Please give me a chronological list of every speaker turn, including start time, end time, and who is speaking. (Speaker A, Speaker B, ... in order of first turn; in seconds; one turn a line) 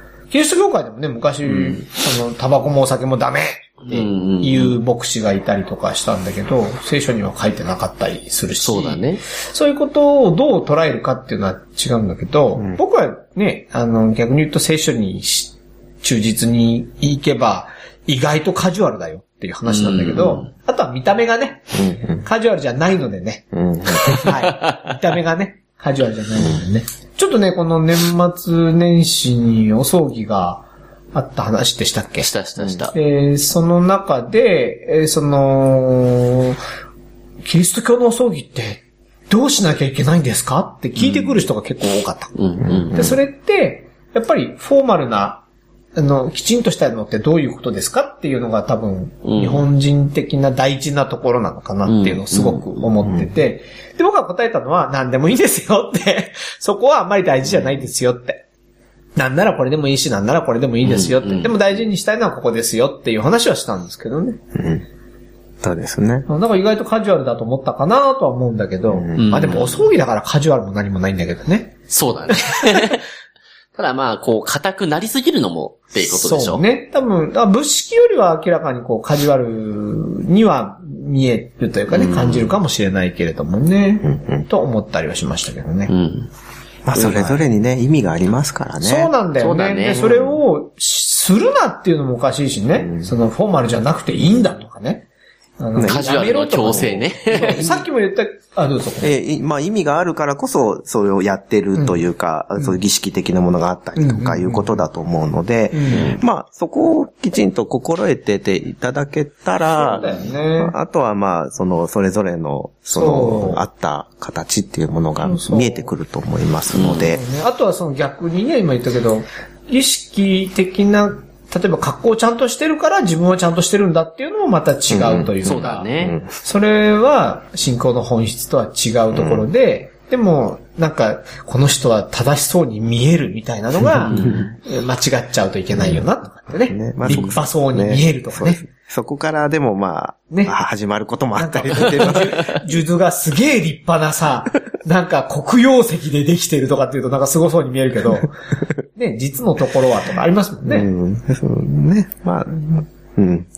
Speaker A: 0.3-23.5
Speaker B: 1.5-1.8
Speaker B: 3.9-4.8
Speaker B: 8.6-9.2
Speaker B: 19.6-20.5
Speaker C: 21.7-22.2
Speaker C: 23.5-24.3
Speaker A: 24.1-32.3
Speaker B: 24.2-24.8
Speaker B: 32.2-32.9
Speaker A: 32.9-36.6
Speaker A: 37.4-42.3
Speaker B: 41.0-41.4
Speaker B: 42.3-43.1
Speaker C: 42.6-43.1
Speaker A: 42.9-45.4
Speaker A: 46.0-58.4
Speaker B: 49.2-49.6
Speaker B: 51.8-52.8
Speaker A: 59.1-64.4
Speaker B: 60.8-61.6
Speaker C: 64.5-64.8
Speaker C: 65.6-66.3
Speaker A: 66.3-71.8
Speaker C: 68.9-69.8
Speaker B: 69.2-69.7
Speaker B: 71.9-73.0
Speaker A: 72.3-73.0
Speaker B: 73.7-76.6
Speaker A: 76.0-85.9
Speaker B: 81.9-82.5
Speaker C: 84.0-84.5
Speaker B: 85.9-86.3
Speaker C: 86.8-89.1
Speaker A: 86.9-87.4
Speaker A: 88.8-95.1
Speaker B: 89.3-90.1
Speaker C: 90.0-90.4
Speaker C: 92.8-93.1
Speaker A: 95.6-99.1
Speaker C: 95.7-96.0
Speaker B: 95.8-97.7
Speaker C: 97.5-97.8
Speaker C: 99.0-117.2
Speaker A: 104.0-104.8
Speaker A: 105.7-106.2
Speaker B: 105.9-106.2
Speaker A: 109.8-110.7
Speaker A: 112.9-113.6
Speaker A: 115.2-115.9
Speaker B: 116.7-117.1
Speaker A: 117.1-138.6
Speaker C: 124.9-126.2
Speaker B: 125.4-126.2
Speaker C: 129.1-129.5
Speaker C: 134.1-134.5
Speaker B: 134.1-134.5
Speaker C: 135.7-136.0
Speaker C: 136.7-142.5
Speaker B: 137.1-137.3
Speaker A: 141.4-148.3
Speaker B: 141.8-142.2
Speaker A: 148.9-150.9
Speaker C: 150.7-153.5